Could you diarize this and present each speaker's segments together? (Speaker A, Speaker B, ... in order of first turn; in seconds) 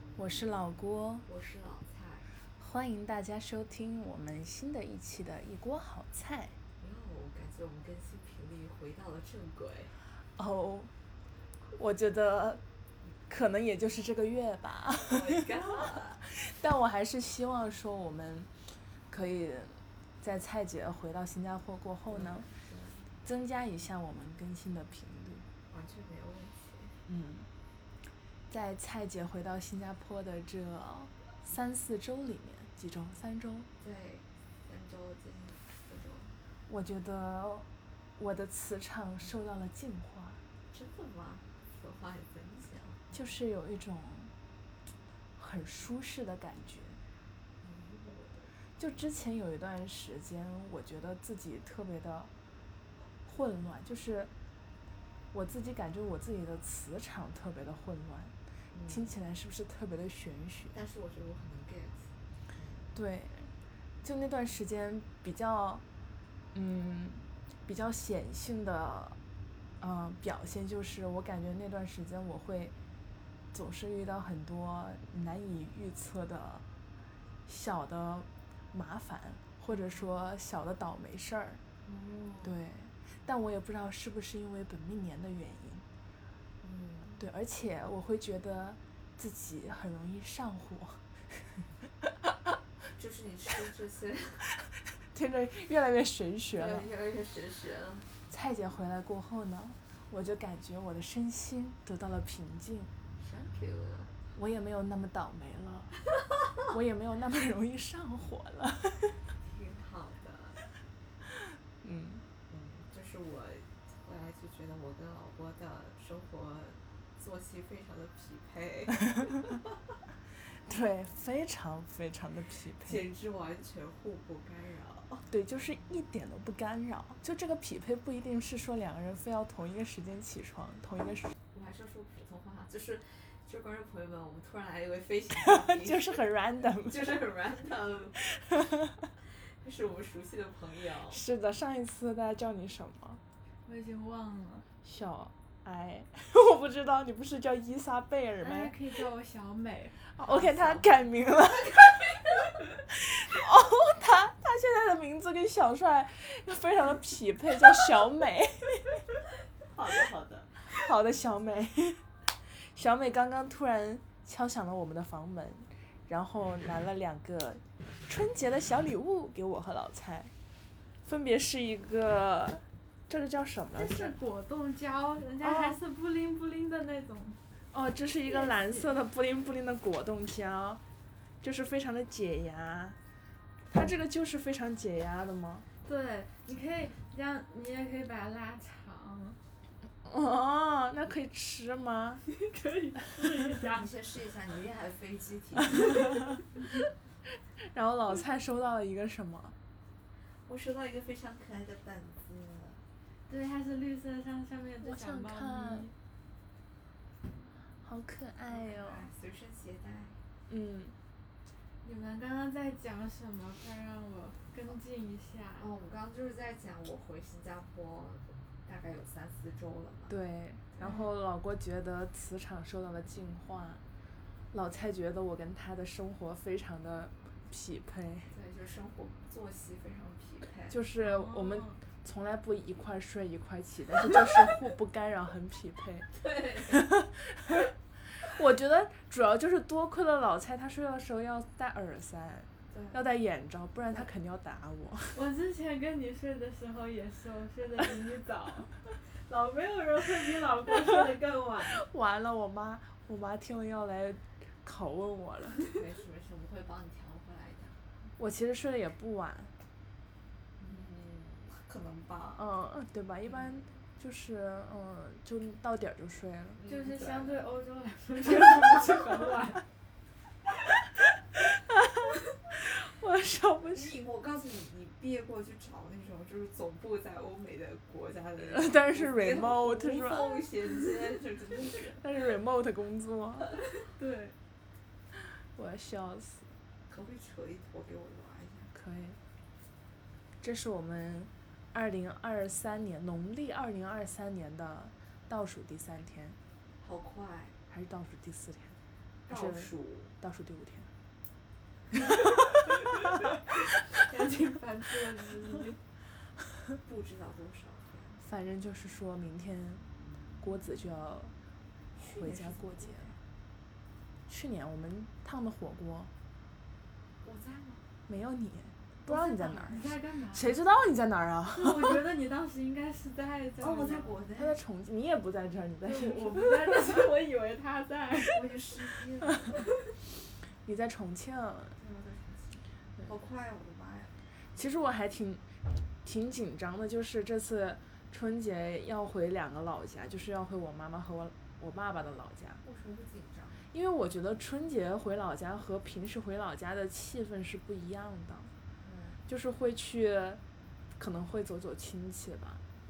Speaker A: 0.2-1.3, 2.6-6.6, 10.4-10.9, 11.8-12.6, 13.3-18.5, 19.1-22.5, 23.2-25.5, 27.1-27.5, 28.5-33.7, 36.7-37.7, 38.2-40.4, 43.1-44.3, 45.4-47.0, 48.8-52.3, 53.2-54.3, 55.3-58.3, 58.9-60.8, 62.9-63.5, 64.0-65.8, 66.5-69.2, 69.8-72.7, 73.5-76.6, 77.5-81.6, 82.4-85.8, 87.2-91.4, 94.5-96.9, 98.3-102.9, 104.3-106.0, 106.7-109.2, 111.8-112.2, 120.6-123.1, 125.3-131.3, 135.3-137.2, 138.3-139.1, 141.1-143.2, 144.8-148.8, 150.2-152.3, 152.9-159.0, 160.7-162.0, 162.6-170.3, 171.1-174.2, 175.4-175.8, 177.7-180.8, 181.4-183.0, 183.7-185.7, 190.0-192.2, 197.6-199.6, 204.8-205.9, 207.8-209.1, 210.5-210.9, 220.1-223.8, 224.5-228.3, 230.7-236.1, 236.7-245.2, 251.7-255.6, 258.2-259.5, 262.4-266.6, 271.4-274.0, 278.5-280.4, 282.0-283.6, 285.1-286.5, 288.7-289.2, 290.4-296.4, 297.7-298.8, 299.3-300.9, 308.2-309.8, 310.4-311.3, 312.0-313.1, 314.3-316.1, 318.1-322.0, 324.4-327.0, 330.6-331.8, 334.5-335.5, 336.0-342.6, 343.7-348.5, 349.3-350.4, 351.0-352.6
Speaker B: 1.3-2.3, 6.8-9.9, 15.1-16.2, 22.1-23.1, 25.7-27.0, 33.8-36.3, 40.7-43.1, 47.6-48.5, 58.7-59.1, 60.7-62.9, 79.7-80.2, 81.8-82.5, 86.6-87.2, 93.0-94.4, 96.5-98.1, 103.2-104.2, 109.4-110.6, 112.5-119.6, 122.8-125.2, 131.5-138.2, 139.4-141.2, 150.2-150.9, 159.7-160.7, 193.6-196.4, 200.5-202.8, 208.5-210.2, 215.6-220.2, 228.3-230.8, 236.1-236.9, 242.7-243.0, 255.7-257.8, 260.6-262.4, 263.3-263.5, 266.6-267.4, 273.7-282.0, 286.9-288.7, 296.8-297.6, 299.3-300.1, 306.8-308.2, 312.0-313.2, 317.2-317.8, 323.6-324.6, 328.2-329.6, 331.8-334.2, 342.6-343.7, 348.8-349.2
Speaker C: 143.7-144.7, 148.4-150.0, 173.8-177.4, 185.8-189.4, 192.3-193.9, 203.3-205.9, 211.8-215.7, 220.8-221.1, 231.0-231.8, 245.1-251.8, 266.7-269.6, 284.0-284.4, 303.9-305.8, 319.1-320.5, 321.6-324.2, 325.8-328.7